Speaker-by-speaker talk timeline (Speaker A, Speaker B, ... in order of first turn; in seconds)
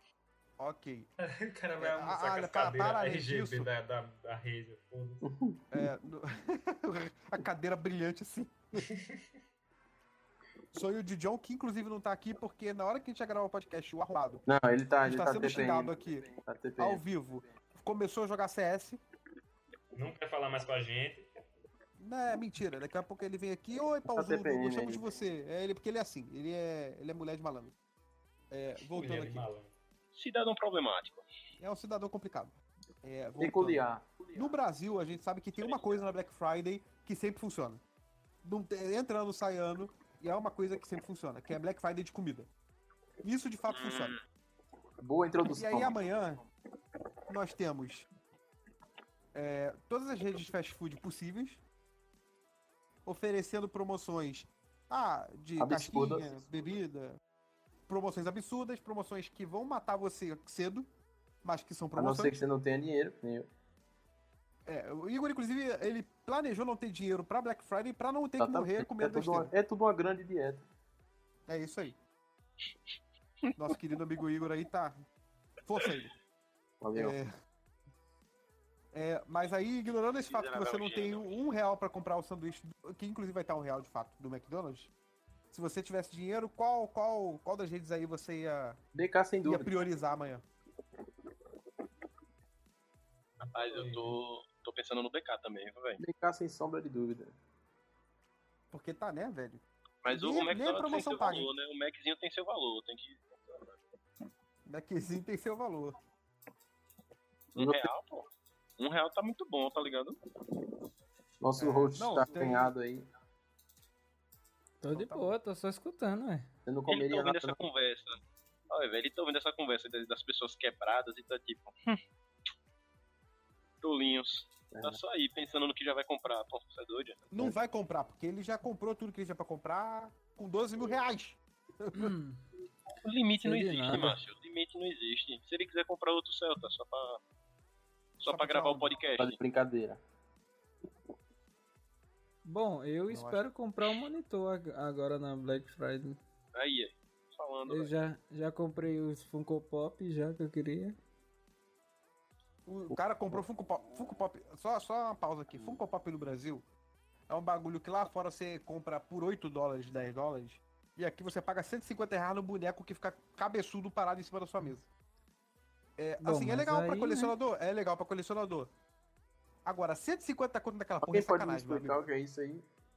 Speaker A: 0.6-1.1, 1.8-3.7, 5.7-8.8, 10.7-14.4, 15.0-19.0, 22.0-27.7, 28.5-29.5, 31.6-37.8, 38.4-42.5, 43.2-44.1, 45.4-46.4, 47.3-48.0, 49.3-51.6, 53.0-57.2, 57.9-60.9, 61.4-62.4, 64.7-69.5, 71.5-72.0, 73.5-75.0, 75.6-76.1, 76.9-77.3, 78.9-84.9, 85.5-88.8, 89.4-90.4, 98.7-101.5, 104.7-106.0, 111.6-112.7, 114.9-115.3, 127.3-132.1, 138.2-138.9, 143.1-143.4, 152.7-156.6, 157.3-164.9, 166.0-168.7, 169.6-172.0
Speaker B: 1.2-5.2, 8.8-9.2, 19.9-21.3, 28.9-29.7, 93.4-94.1
Speaker C: 5.2-5.6, 14.4-17.0, 24.1-25.1, 33.4-34.3, 45.0-46.0, 55.6-56.4, 62.0-63.5, 68.4-70.7, 76.8-77.1, 88.9-89.7, 96.0-97.3, 107.5-107.9, 111.4-113.1, 116.7-117.5, 124.7-125.0, 139.2-140.0, 171.0-172.6
Speaker D: 30.1-31.2, 43.7-44.2, 80.3-81.3, 93.5-96.0, 100.0-103.8, 107.5-110.2, 116.9-122.0, 123.8-127.2, 133.0-137.2, 138.2-139.4, 146.5-147.9
Speaker E: 114.8-116.5, 131.9-132.4, 133.4-134.2, 142.4-146.2, 147.7-151.0, 166.2-167.3